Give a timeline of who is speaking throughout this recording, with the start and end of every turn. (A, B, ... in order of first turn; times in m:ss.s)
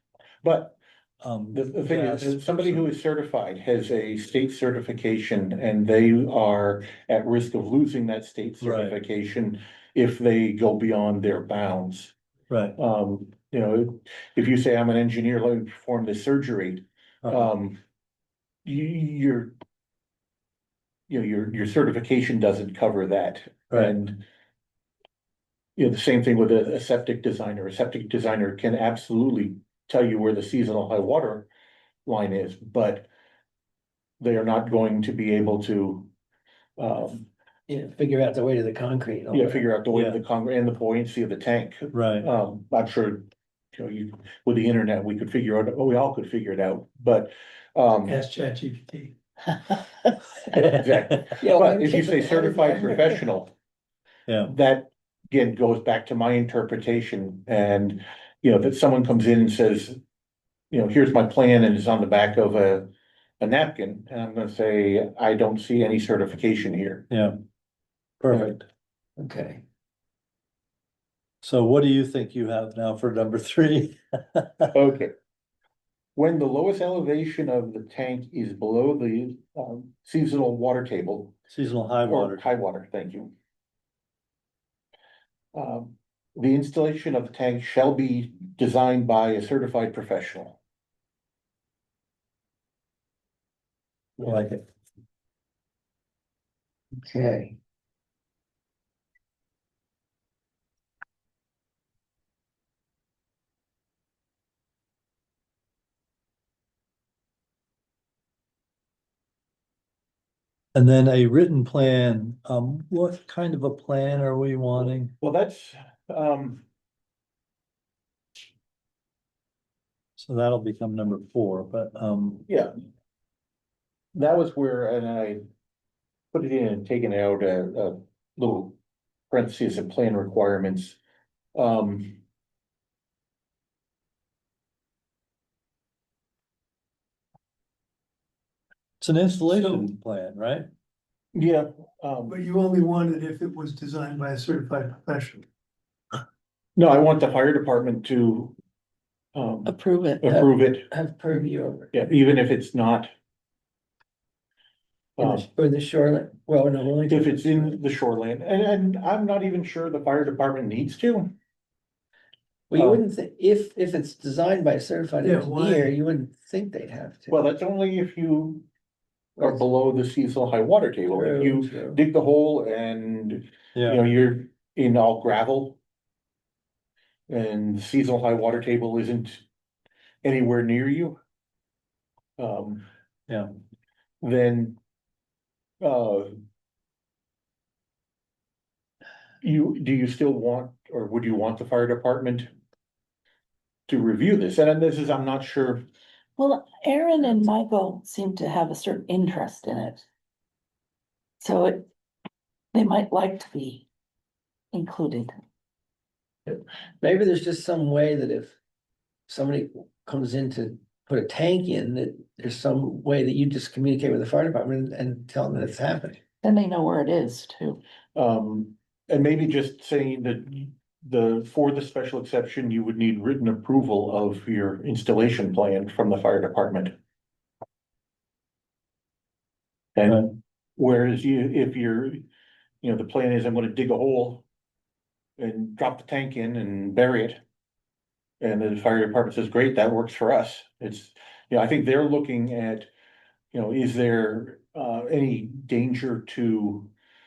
0:00.4-0:00.8 A
0:01.2-0:02.9 B
0:01.5-0:12.1 A
0:08.6-0:09.0 B
0:12.5-0:12.8 B
0:12.8-0:17.8 A
0:17.2-0:17.5 B
0:18.6-0:19.5 A
0:21.1-0:24.2 A
0:25.8-0:31.5 A
0:32.0-0:33.1 A
0:34.2-0:36.1 A
0:36.8-0:37.3 A
0:37.7-0:39.6 C
0:39.3-0:48.2 A
0:39.9-0:40.2 B
0:41.9-0:42.3 B
0:48.1-0:49.1 D
0:50.5-0:51.2 B
0:50.6-0:53.5 A
0:51.2-0:53.2 C
0:54.3-0:54.5 B
0:54.4-1:00.0 A
1:00.7-1:02.9 A
1:03.4-1:07.1 A
1:07.1-1:07.4 B
1:08.2-1:08.6 B
1:08.3-1:08.6 A
1:09.2-1:09.6 C
1:11.4-1:14.7 B
1:14.7-1:15.1 A
1:16.2-1:21.4 A
1:21.5-1:22.5 B
1:22.1-1:23.3 A
1:25.5-1:30.6 A
1:34.2-1:34.6 B
1:37.0-1:37.6 C
1:50.7-1:55.1 B
1:54.8-1:56.6 A
2:00.2-2:02.4 B
2:04.1-2:05.4 A
2:06.3-2:08.8 A
2:09.3-2:11.0 A
2:11.6-2:12.2 A
2:19.0-2:20.7 B
2:19.5-2:19.9 D
2:21.3-2:22.4 A
2:22.3-2:25.4 D
2:26.8-2:28.6 A
2:29.3-2:30.9 A
2:29.6-2:30.3 E
2:30.3-2:31.9 C
2:31.9-2:33.1 A
2:35.2-2:35.4 A
2:35.2-2:37.8 C
2:37.1-2:41.3 A
2:42.7-2:47.5 C
2:42.8-2:43.0 A
2:45.2-2:45.8 D
2:47.3-2:48.7 A
2:49.4-2:49.6 C
2:49.4-2:55.8 A
2:51.1-2:52.0 C
2:53.8-2:54.0 B
2:57.3-2:59.4 A
3:00.2-3:01.2 A
3:02.4-3:02.9 A
3:04.2-3:04.8 A
3:05.8-3:06.3 A
3:09.4-3:12.5 A
3:13.9-3:15.8 A
3:16.4-3:20.0 E
3:21.4-3:21.9 E
3:22.7-3:23.9 E
3:24.7-3:25.3 E
3:26.5-3:28.6 C
3:29.3-3:36.2 C
3:36.4-3:37.8 E
3:38.2-3:46.9 A
3:50.0-3:52.2 A
3:52.8-3:54.4 A
3:55.4-3:57.4 A
3:58.4-4:02.9 A
4:03.5-4:06.9 A